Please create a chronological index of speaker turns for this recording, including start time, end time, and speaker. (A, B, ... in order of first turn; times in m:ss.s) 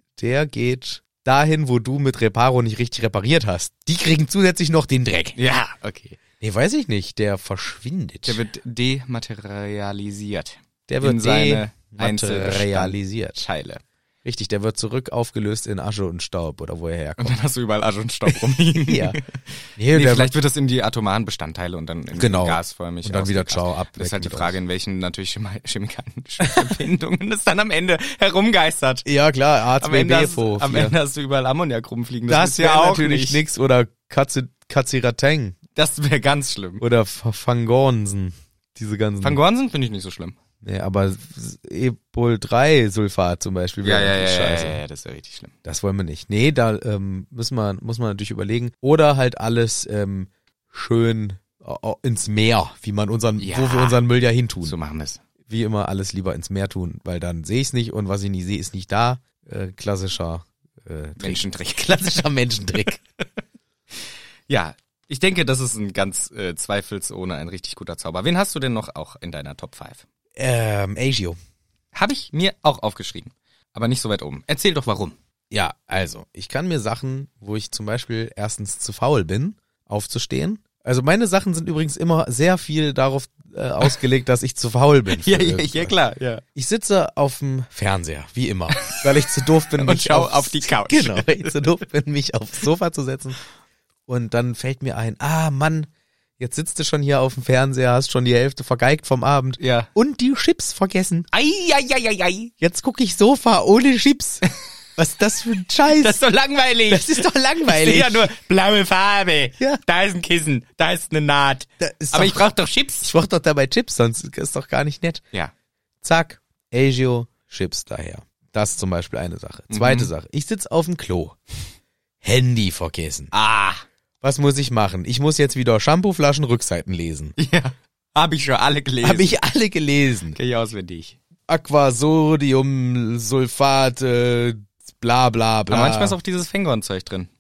0:00.2-0:05.4 A
0:05.4-0:06.2 B
0:06.4-0:08.4 A
0:08.2-0:13.8 B
0:10.9-0:13.4 A
0:14.2-0:17.4 A
0:17.2-0:29.0 B
0:18.8-0:19.2 A
0:19.8-0:20.3 A
0:22.1-0:24.5 A
0:29.0-0:31.0 A
0:29.8-0:33.4 B
0:32.3-0:35.6 A
0:35.7-0:36.8 B
0:36.8-0:39.4 A
0:39.2-0:40.4 B
0:40.6-0:44.8 A
0:43.8-0:45.5 B
0:45.6-0:54.7 A
0:53.4-0:54.0 B
0:54.6-0:55.2 B
0:55.5-1:03.0 A
1:01.2-1:02.2 B
1:02.8-1:03.2 B
1:04.5-1:10.0 B
1:10.4-1:11.4 A
1:11.9-1:15.1 B
1:15.5-1:25.9 A
1:25.2-1:26.4 B
1:26.5-1:33.4 A
1:29.8-1:31.7 B
1:34.1-1:41.3 A
1:39.6-1:39.9 B
1:41.3-1:42.5 B
1:42.6-1:44.4 A
1:45.0-1:46.2 A
1:46.0-1:53.1 B
1:46.9-1:48.3 A
1:51.8-1:52.4 A
1:53.0-1:55.2 A
1:56.0-2:01.4 A
1:59.7-2:00.1 B
2:02.2-2:03.3 A
2:03.3-2:03.8 B
2:04.2-2:07.3 A
2:07.4-2:09.3 B
2:09.0-2:10.4 A
2:10.3-2:11.2 B
2:11.5-2:16.2 A
2:15.7-2:17.3 B